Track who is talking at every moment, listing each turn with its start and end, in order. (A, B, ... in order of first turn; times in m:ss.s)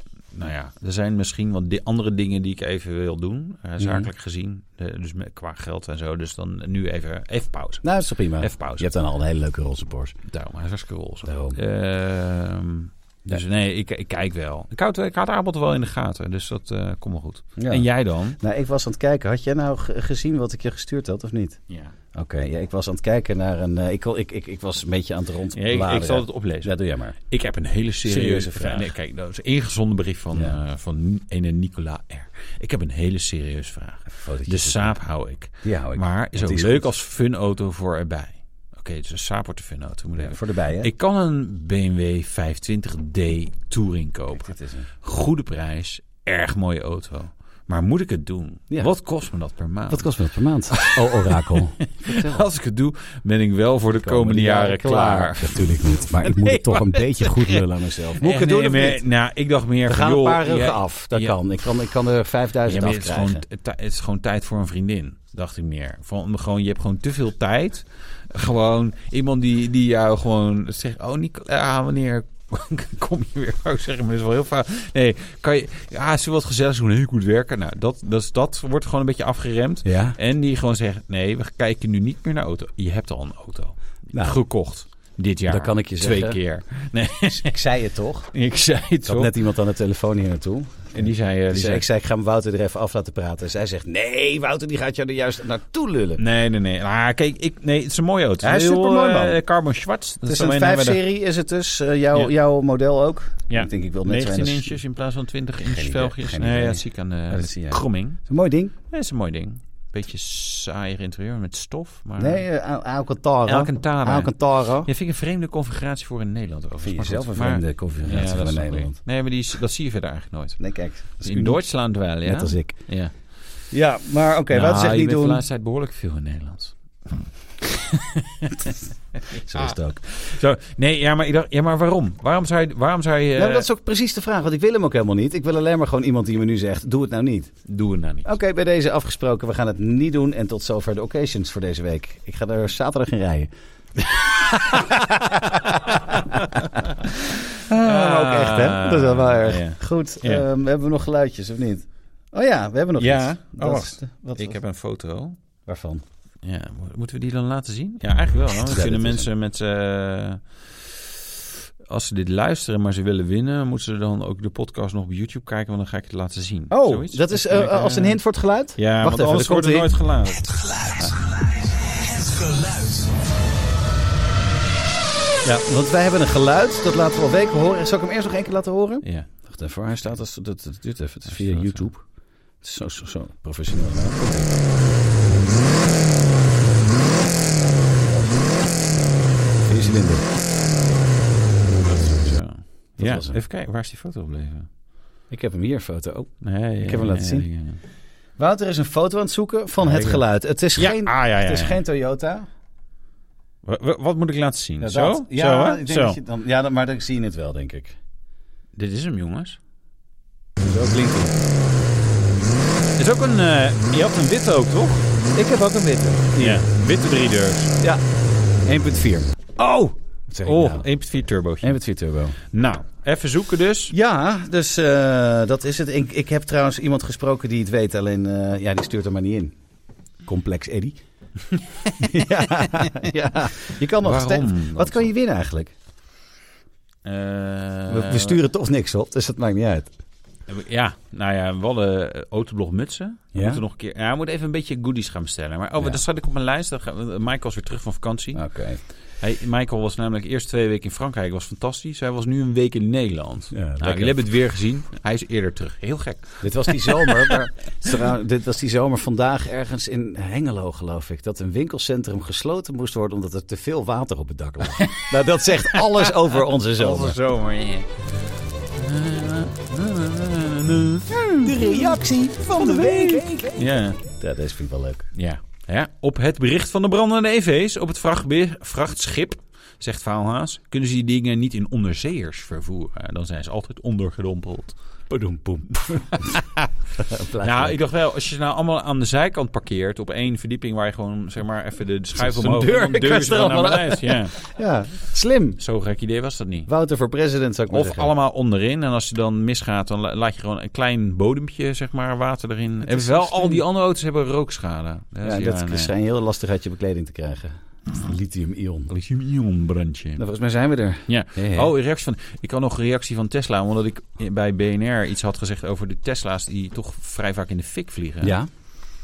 0:00.3-0:08.9 A
0:03.8-0:04.1 B
0:07.8-0:10.1 B
0:10.3-0:18.4 A
0:11.3-0:11.6 B
0:17.6-0:21.6 B
0:22.1-0:27.2 B
0:25.5-0:50.1 A
0:28.0-0:28.9 B
0:34.1-0:35.0 B
0:35.6-0:36.9 B
0:40.2-0:40.9 B
0:44.3-0:44.9 B
0:49.9-0:52.4 B
0:50.7-0:57.6 A
0:54.0-0:59.0 B
0:58.2-1:01.4 A
0:59.8-1:03.4 B
1:02.6-1:27.6 A
1:19.8-1:20.2 B
1:24.1-1:24.4 B
1:25.5-1:26.4 B
1:27.3-1:28.3 B
1:28.3-1:29.3 A
1:29.0-1:36.2 B
1:30.9-1:31.8 A
1:36.2-1:41.0 A
1:38.4-1:39.4 B
1:40.2-1:44.8 B
1:43.5-1:48.2 A
1:45.6-1:48.7 B
1:48.9-1:52.4 A
1:52.2-1:54.9 B
1:53.4-2:00.6 A
1:56.8-1:59.0 B
2:00.6-2:01.6 B
2:01.2-2:03.1 A
2:02.2-2:02.8 B
2:03.7-2:05.4 B
2:04.5-2:13.7 A
2:09.4-2:10.0 B
2:13.4-2:17.5 B
2:17.7-2:18.3 A
2:18.2-2:26.1 B
2:25.7-2:30.4 A
2:27.7-2:34.6 B
2:33.0-2:35.4 A
2:35.7-2:36.0 B
2:36.4-2:40.4 A
2:38.5-2:39.3 B
2:41.9-2:48.2 A
2:46.7-2:49.9 B
2:48.8-2:51.1 A
2:52.1-2:53.0 B
2:55.4-3:02.0 B
2:59.0-2:59.3 A
3:01.3-3:01.9 A
3:02.6-3:04.5 B
3:08.0-3:08.3 B
3:09.6-3:10.3 B
3:12.0-3:14.7 A
3:13.0-3:13.4 B
3:15.3-3:17.5 B
3:16.4-3:17.8 A
3:18.4-3:22.5 B
3:19.8-3:20.2 A
3:20.8-3:21.8 A
3:23.6-3:26.2 A
3:24.8-3:28.0 B
3:28.8-3:29.6 A
3:30.6-3:31.3 B
3:33.0-3:35.3 A
3:35.3-3:36.6 B
3:36.3-3:37.7 A
3:38.6-3:39.7 B
3:40.3-3:40.9 B
3:40.4-3:41.8 A
3:41.6-3:42.4 B
3:42.4-3:43.9 A
3:43.9-3:49.5 B
3:50.2-3:51.0 B
3:51.9-3:55.7 B
3:52.6-3:53.0 A
3:54.0-3:55.1 A
3:57.0-3:58.4 A
3:57.9-3:59.9 B
4:00.5-4:08.4 A
4:03.3-4:03.6 B
4:08.3-4:08.8 B
4:09.2-4:17.4 A
4:13.5-4:14.2 B
4:16.4-4:27.2 B
4:24.7-4:27.9 A
4:28.7-4:32.0 A
4:31.1-4:35.1 B
4:32.6-4:34.0 A
4:35.1-4:44.8 A
4:45.1-4:46.4 B
4:46.0-4:46.7 A
4:47.0-4:47.8 B
4:47.4-4:54.4 A
4:52.1-4:55.6 B
4:55.6-4:56.7 A
4:56.7-4:58.1 B
4:57.7-5:05.9 A
5:02.9-5:03.6 B
5:05.2-5:08.9 B
5:08.9-5:10.2 A
5:10.2-5:11.7 B
5:11.1-5:18.4 A
5:18.2-5:18.5 B